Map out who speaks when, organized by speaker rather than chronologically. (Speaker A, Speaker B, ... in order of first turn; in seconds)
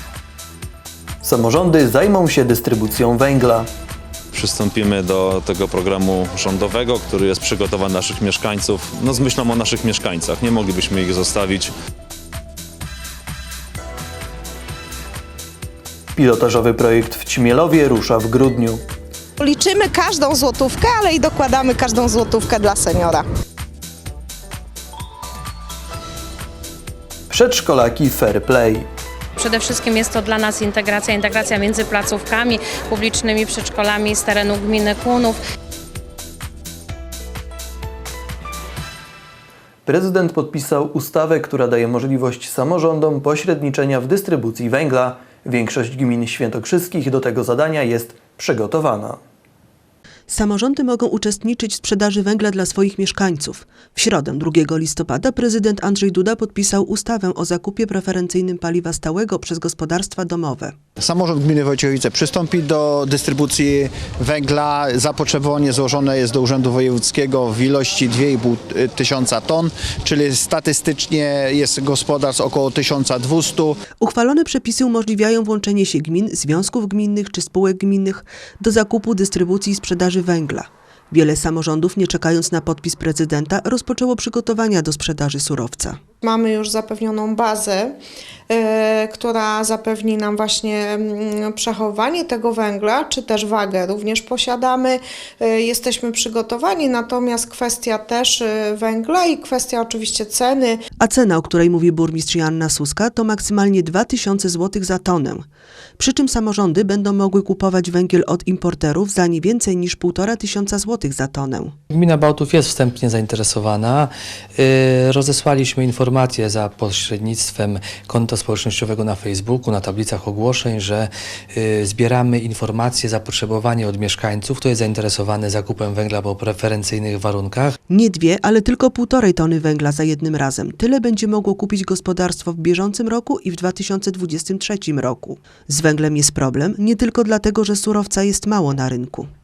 Speaker A: 1.2-3.7, 16.1-18.8, 27.3-28.9, 39.9-49.2
Speaker B: 4.3-11.7
Speaker C: 19.4-23.2, 86.2-87.9, 88.5-100.8
Speaker D: 29.4-35.4
Speaker E: 50.3-60.8, 74.0-86.0, 101.0-105.4, 106.0-111.7, 127.9-139.3
Speaker F: 61.0-73.8
Speaker G: 111.9-127.8